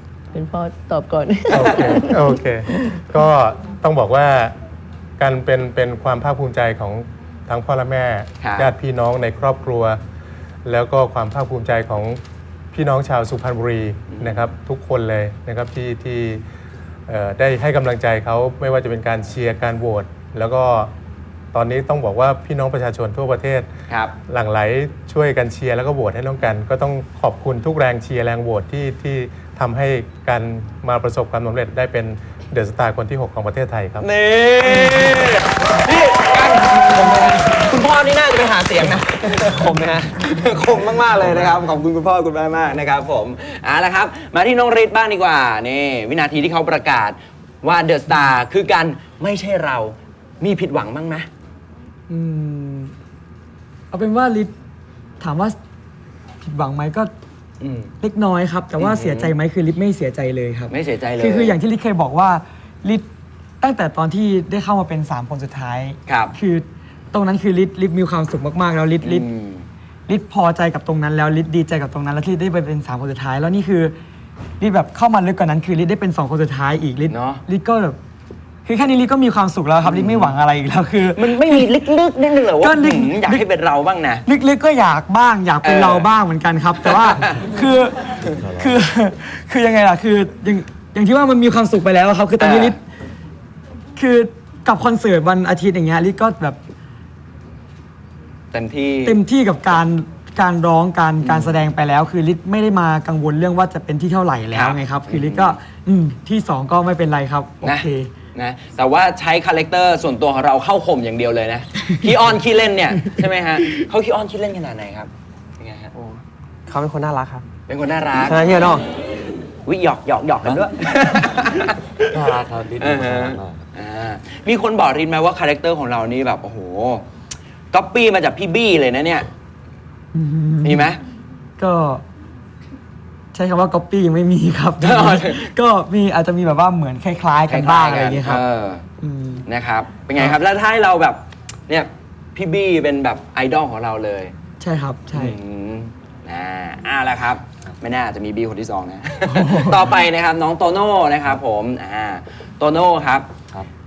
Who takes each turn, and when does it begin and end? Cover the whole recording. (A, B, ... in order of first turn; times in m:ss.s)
0:00.3-0:03.0 A
0:01.5-0:04.5 B
0:01.6-0:01.8 C
0:05.2-0:10.0 B
0:08.4-0:08.7 C
0:10.6-0:12.2 B
0:12.7-0:16.4 B
0:14.1-0:14.5 C
0:17.1-0:20.9 B
0:21.5-0:23.7 B
0:24.3-0:34.0 B
0:34.0-0:51.3 C
0:39.6-0:40.1 D
0:52.1-0:52.9 E
0:53.9-0:54.5 E
0:55.2-0:55.6 E
0:56.4-0:57.1 E
0:57.6-0:57.9 C
0:58.0-1:03.1 E
0:58.8-0:59.4 C
1:00.7-1:01.5 C
1:03.6-1:09.3 E
1:06.1-1:06.3 C
1:09.0-1:09.6 C
1:10.1-1:14.0 E
1:14.6-1:18.0 E
1:17.1-1:17.4 C
1:18.6-1:21.7 E
1:19.8-1:20.4 C
1:21.1-1:24.2 C
1:22.4-1:23.4 E
1:24.3-1:28.0 E
1:25.6-1:26.1 C
1:26.8-1:27.4 C
1:28.3-1:28.8 F
1:28.6-1:32.8 E
1:32.4-1:32.8 C
1:34.0-1:36.6 E
1:38.5-1:39.2 C
1:39.0-1:48.1 E
1:41.2-1:41.6 C
1:44.5-1:45.6 C
1:47.6-1:55.9 C
1:55.9-1:57.4 D
1:57.7-1:58.5 C
1:58.2-1:58.8 D
1:59.6-2:01.8 C
2:00.4-2:00.7 F
2:02.1-2:03.6 F
2:02.8-2:07.0 C
2:07.7-2:09.3 C
2:10.1-2:10.9 E
2:10.6-2:11.0 C
2:11.6-2:12.0 E
2:13.3-2:18.4 E
2:14.8-2:15.5 C
2:17.5-2:18.8 C
2:19.0-2:19.4 E
2:19.5-2:24.3 C
2:24.6-2:25.4 E
2:25.1-2:33.3 C
2:29.3-2:29.8 E